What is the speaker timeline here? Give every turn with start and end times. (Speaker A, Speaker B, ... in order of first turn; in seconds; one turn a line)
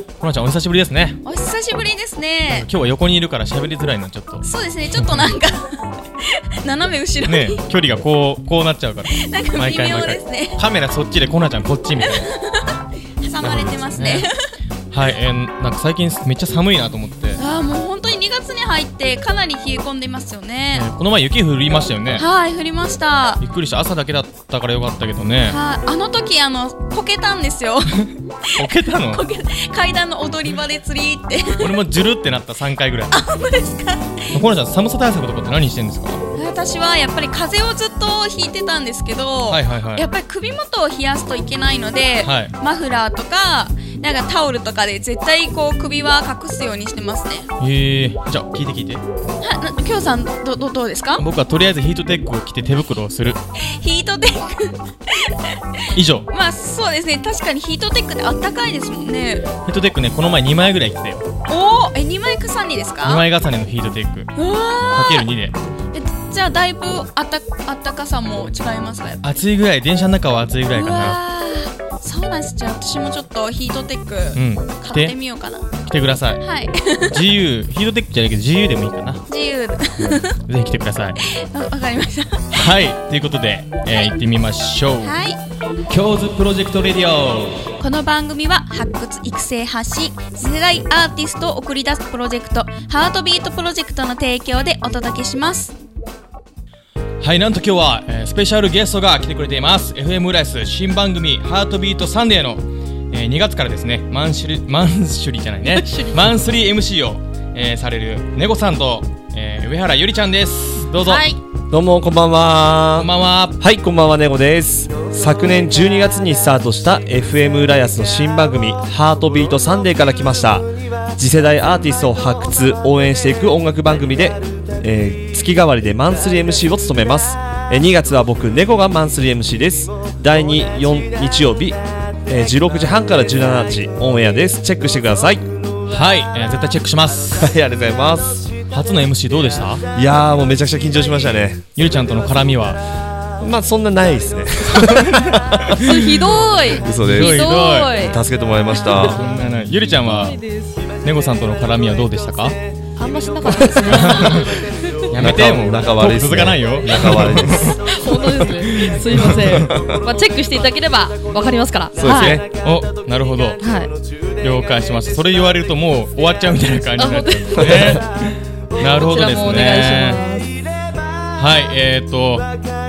Speaker A: 0.2-1.2
Speaker B: 1.2-2.7
Speaker A: 2.5-5.3
Speaker B: 4.4-7.6
Speaker A: 7.3-12.3
Speaker B: 9.2-10.6
Speaker B: 12.0-14.3
Speaker A: 13.4-14.3
Speaker A: 14.9-17.4
Speaker B: 17.4-20.9
Speaker A: 20.7-22.3
Speaker B: 22.1-23.4
Speaker A: 23.4-25.6
Speaker B: 25.5-31.8
Speaker A: 28.6-29.2
Speaker A: 31.6-33.2
Speaker B: 33.1-34.4
Speaker A: 34.3-36.2
Speaker B: 36.3-47.5
Speaker A: 39.5-40.0
Speaker A: 42.2-42.5
Speaker A: 47.6-49.0
Speaker B: 49.4-51.2
Speaker A: 51.2-53.4
Speaker B: 53.6-55.6
Speaker A: 55.9-56.3
Speaker B: 56.3-59.5
Speaker A: 59.7-61.3
Speaker B: 61.5-63.2
Speaker A: 63.0-64.3
Speaker B: 64.4-65.3
Speaker A: 64.9-65.5
Speaker B: 65.9-69.3
Speaker A: 69.2-71.2
Speaker B: 70.7-75.7
Speaker A: 74.3-75.2
Speaker A: 75.8-76.4
Speaker B: 76.4-77.2
Speaker A: 77.1-79.2
Speaker B: 79.3-80.4
Speaker A: 80.1-81.2
Speaker B: 81.2-82.5
Speaker A: 82.5-85.2
Speaker B: 85.0-85.4
Speaker A: 85.9-87.7
Speaker B: 87.8-95.8
Speaker A: 97.2-111.3
Speaker C: 105.7-106.3
Speaker C: 111.0-111.4
Speaker D: 111.7-135.4
Speaker A: 113.0-113.6
Speaker A: 135.9-137.5
Speaker D: 137.4-138.5
Speaker A: 138.7-139.8
Speaker D: 139.9-141.6
Speaker A: 141.8-142.8
Speaker D: 143.4-146.0
Speaker A: 144.7-146.0
Speaker C: 145.8-148.2
Speaker D: 146.8-149.2
Speaker A: 146.9-148.0
Speaker A: 148.9-150.4
Speaker C: 150.1-150.7
Speaker A: 151.0-152.6
Speaker C: 153.0-154.6
Speaker D: 153.4-154.5
Speaker A: 153.8-154.5
Speaker A: 155.1-159.7
Speaker D: 155.1-158.2
Speaker C: 157.9-162.4
Speaker D: 159.1-160.0
Speaker D: 162.0-162.4
Speaker A: 162.0-163.6
Speaker C: 163.6-163.9
Speaker A: 164.4-170.2
Speaker C: 167.0-167.9
Speaker D: 167.6-168.0
Speaker C: 168.8-170.5
Speaker A: 171.4-172.5